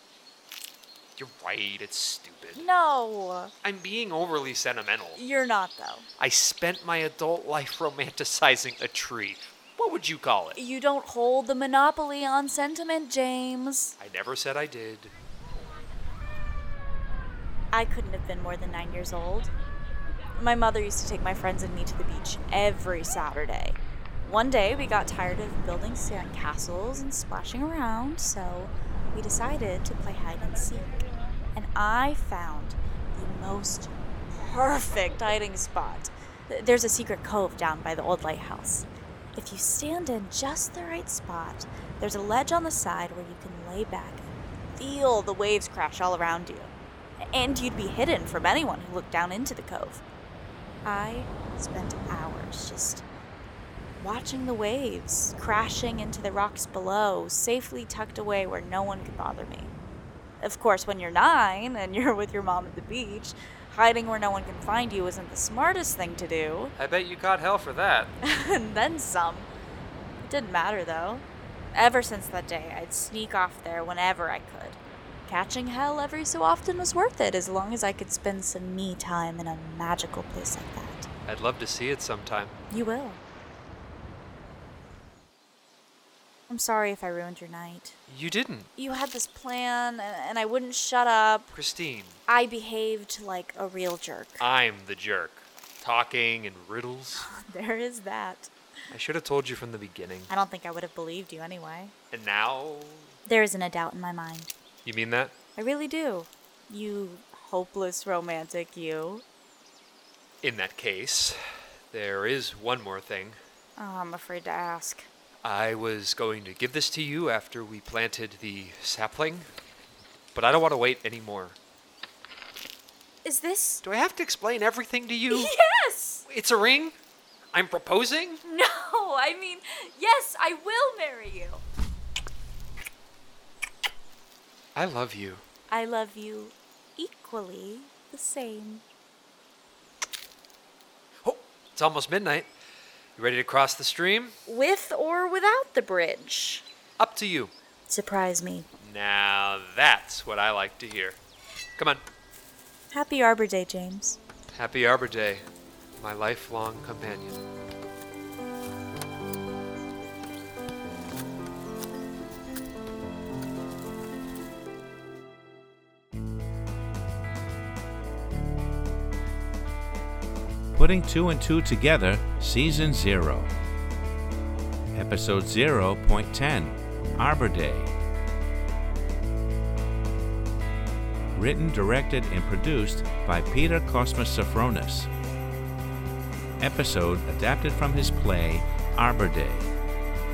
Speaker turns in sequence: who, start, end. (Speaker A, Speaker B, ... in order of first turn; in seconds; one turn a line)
Speaker A: 1.2-2.6
Speaker B: 2.5-3.5
Speaker A: 3.6-5.2
Speaker B: 5.2-6.0
Speaker A: 6.2-10.6
Speaker B: 10.6-13.9
Speaker A: 14.0-15.1
Speaker B: 17.7-19.5
Speaker B: 20.4-30.9
Speaker B: 31.5-44.2
Speaker B: 44.8-46.7
Speaker B: 47.3-50.0
Speaker B: 50.8-53.0
Speaker B: 54.0-59.7
Speaker B: 60.4-66.7
Speaker A: 66.8-68.1
Speaker B: 68.2-69.5
Speaker B: 70.2-81.1
Speaker A: 81.3-82.5
Speaker B: 82.7-83.2
Speaker B: 86.5-88.0
Speaker A: 88.1-88.7
Speaker B: 88.8-91.5
Speaker A: 91.5-92.2
Speaker B: 92.3-94.4
Speaker A: 94.4-97.3
Speaker B: 97.2-98.5
Speaker A: 98.9-100.3
Speaker B: 100.3-101.9
Speaker A: 102.1-103.1
Speaker B: 103.2-104.5
Speaker A: 104.8-105.3
Speaker B: 105.5-109.2
Speaker A: 110.4-111.4
Speaker A: 111.9-113.4
Speaker B: 113.8-115.1
Speaker A: 115.4-119.5
Speaker A: 120.3-121.6
Speaker B: 123.2-123.8
Speaker A: 123.8-125.5
Speaker B: 125.3-126.2
Speaker A: 126.2-126.9
Speaker A: 127.5-128.4
Speaker B: 128.4-131.6
Speaker A: 134.8-135.4
Speaker B: 135.7-138.8
Speaker A: 141.2-142.5
Speaker A: 143.2-144.3
Speaker B: 144.4-146.6
Speaker A: 147.0-147.5
Speaker B: 147.9-148.7
Speaker A: 148.8-151.2
Speaker A: 151.8-152.0
Speaker B: 152.9-154.2
Speaker A: 154.5-155.4
Speaker A: 156.0-157.4
Speaker C: 170.7-173.5
Speaker C: 174.9-177.9
Speaker C: 181.3-185.1
Speaker C: 186.6-189.7